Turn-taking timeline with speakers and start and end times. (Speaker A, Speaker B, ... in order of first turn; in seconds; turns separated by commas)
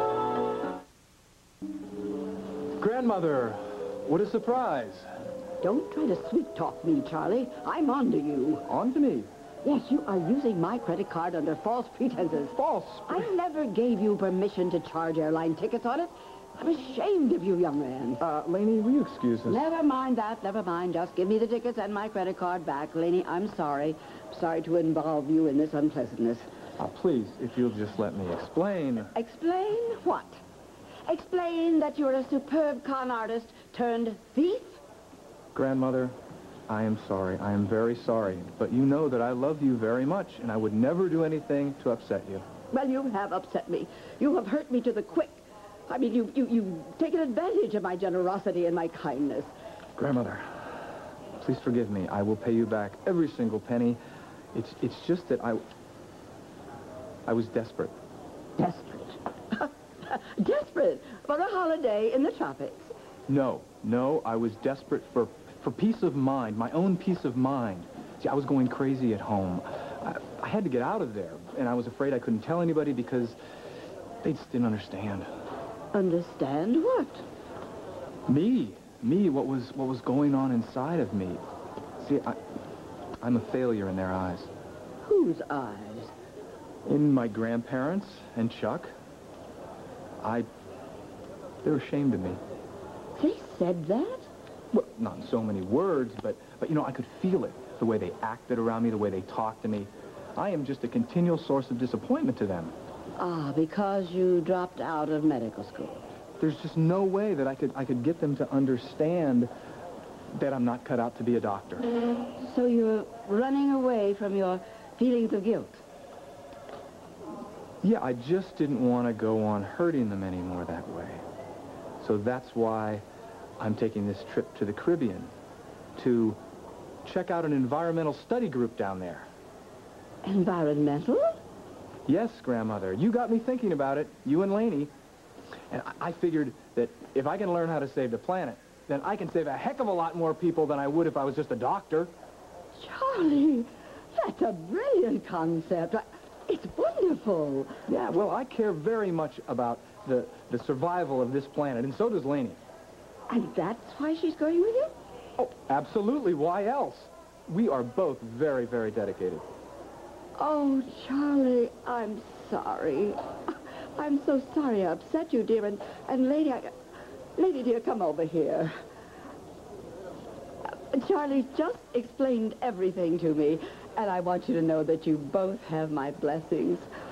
Speaker A: 2.8-5.0, Speaker B: 5.6-8.7, Speaker A: 8.7-9.3, Speaker B: 9.6-12.5, Speaker A: 12.5-13.3, Speaker B: 13.1-18.2, Speaker A: 18.2-19.7, Speaker B: 19.4-26.5, Speaker A: 26.8-29.1, Speaker B: 29.1-30.4, Speaker B: 31.1-34.8, Speaker A: 35.5-36.1, Speaker A: 36.7-42.4, Speaker B: 42.7-49.5, Speaker A: 50.0-50.6, Speaker A: 51.4-54.0, Speaker A: 54.5-55.6, Speaker A: 57.3-57.9, Speaker B: 58.6-62.9, Speaker A: 63.3-73.4, Speaker A: 74.2-75.3, Speaker B: 75.9-77.2, Speaker A: 78.3-81.4, Speaker A: 82.0-82.4, Speaker A: 83.2-84.5, Speaker B: 85.0-86.1, Speaker A: 86.9-88.9, Speaker A: 90.2-90.5, Speaker A: 91.6-92.4, Speaker B: 93.2-94.3, Speaker A: 94.7-102.7, Speaker B: 103.2-106.0, Speaker A: 106.4-109.5, Speaker A: 110.3-111.9, Speaker B: 112.4-115.8, Speaker A: 117.8-121.2, Speaker A: 122.0-123.0, Speaker A: 123.6-125.3, Speaker A: 126.0-126.4, Speaker A: 127.0-129.3, Speaker B: 130.2-131.4, Speaker A: 132.1-134.9, Speaker A: 135.7-142.1, Speaker B: 142.8-147.8, Speaker A: 147.9-152.6, Speaker B: 153.3-154.9, Speaker A: 155.4-159.4, Speaker B: 160.4-166.7, Speaker B: 167.3-168.7, Speaker B: 170.9-176.9